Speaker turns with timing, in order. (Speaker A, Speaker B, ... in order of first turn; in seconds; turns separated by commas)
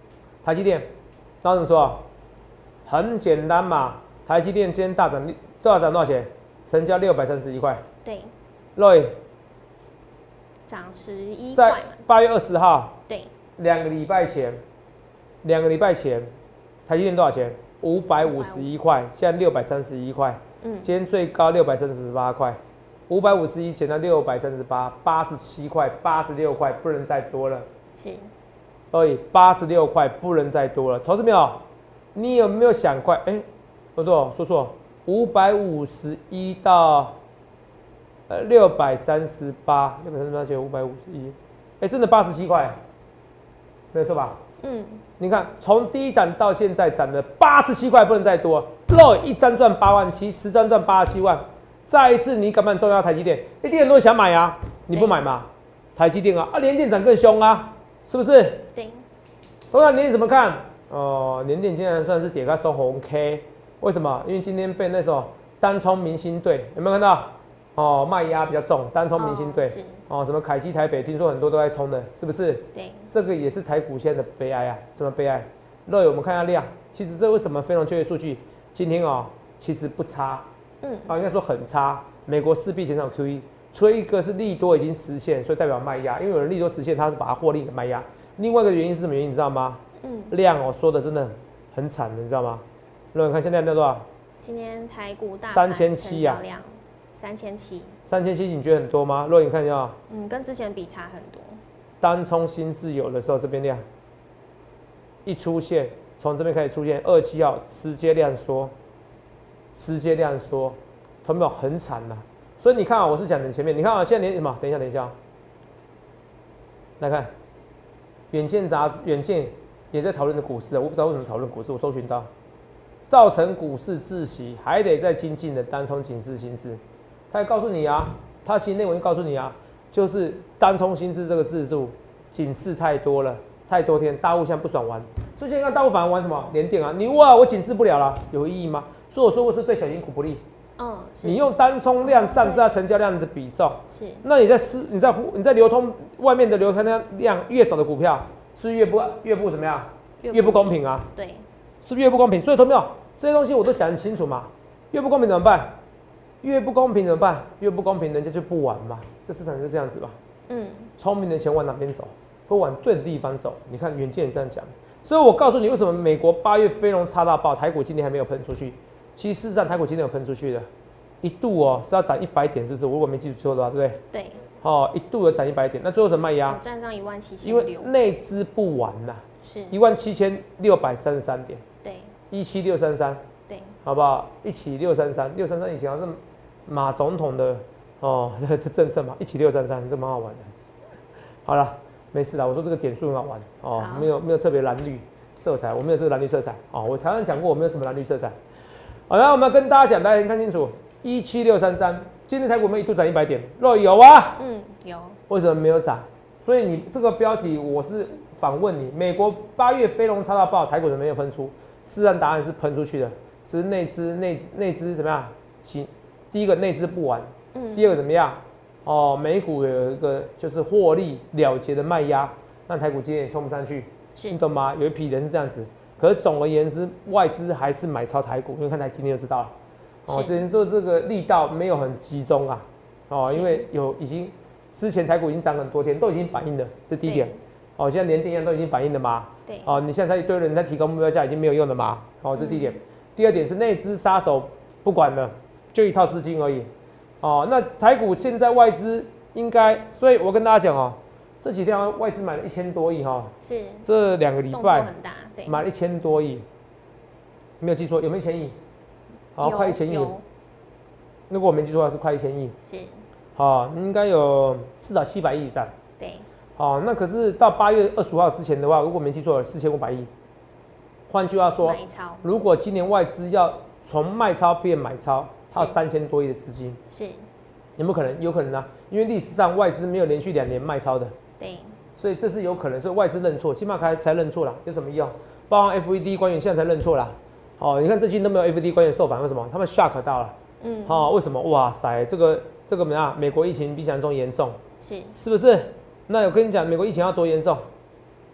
Speaker A: 0.4-0.9, Speaker A: 1.4-2.0, Speaker A: 2.9-7.8, Speaker B: 8.0-8.3, Speaker A: 8.8-9.2, Speaker B: 10.7-12.0, Speaker A: 11.5-13.0, Speaker A: 13.6-14.6, Speaker A: 15.4-16.3, Speaker A: 16.9-27.6, Speaker B: 18.2-18.7, Speaker B: 20.6-20.9, Speaker B: 28.0-28.3, Speaker A: 28.9-33.4, Speaker A: 34.0-37.1, Speaker A: 38.3-42.8, Speaker A: 43.9-44.4, Speaker B: 44.6-45.0, Speaker A: 45.2-58.7, Speaker B: 54.9-55.2, Speaker B: 58.7-59.0, Speaker A: 59.7-80.5, Speaker B: 69.2-70.0, Speaker B: 72.7-73.1, Speaker B: 80.8-81.1, Speaker A: 81.1-94.0, Speaker B: 90.0-90.3, Speaker B: 94.4-97.9, Speaker A: 95.4-96.4, Speaker A: 98.1-100.0, Speaker B: 100.1-101.6, Speaker A: 102.0-103.8, Speaker A: 105.2-108.7, Speaker A: 109.8-115.1, Speaker A: 117.0-117.3, Speaker A: 118.3-122.3, Speaker A: 123.1-140.4, Speaker B: 140.8-142.7, Speaker A: 141.2-151.1, Speaker B: 143.9-144.2, Speaker B: 150.2-151.4, Speaker A: 151.8-155.8, Speaker A: 156.4-160.2, Speaker B: 160.5-160.9, Speaker A: 161.0-170.7, Speaker A: 171.2-174.0, Speaker B: 174.1-174.4, Speaker A: 174.6-176.6, Speaker B: 176.5-177.9, Speaker A: 177.4-181.6, Speaker B: 179.4-179.8, Speaker B: 181.8-182.1, Speaker A: 182.3-183.2, Speaker B: 183.5-183.7, Speaker A: 183.8-190.5, Speaker A: 191.4-198.4, Speaker B: 193.8-194.1, Speaker A: 199.1-204.4, Speaker B: 204.4-205.2, Speaker A: 205.3-229.5, Speaker B: 217.5-217.9, Speaker A: 230.1-246.7, Speaker B: 230.1-230.4, Speaker B: 233.2-233.6, Speaker B: 237.0-237.4, Speaker B: 239.5-239.8, Speaker B: 242.4-242.8, Speaker A: 247.2-253.3, Speaker B: 253.4-253.9, Speaker A: 253.8-254.9, Speaker B: 254.5-255.6, Speaker A: 255.4-256.4, Speaker A: 257.6-258.6, Speaker A: 259.4-260.1, Speaker B: 259.4-260.2, Speaker A: 261.3-262.5, Speaker B: 262.7-263.0, Speaker A: 263.4-265.7, Speaker B: 266.0-266.2, Speaker A: 266.6-270.1, Speaker A: 271.1-276.8, Speaker B: 271.6-272.2, Speaker B: 276.9-277.2, Speaker A: 277.8-281.1, Speaker B: 281.4-281.8, Speaker A: 282.0-294.6, Speaker B: 290.6-291.1, Speaker B: 294.8-295.1, Speaker A: 295.1-297.6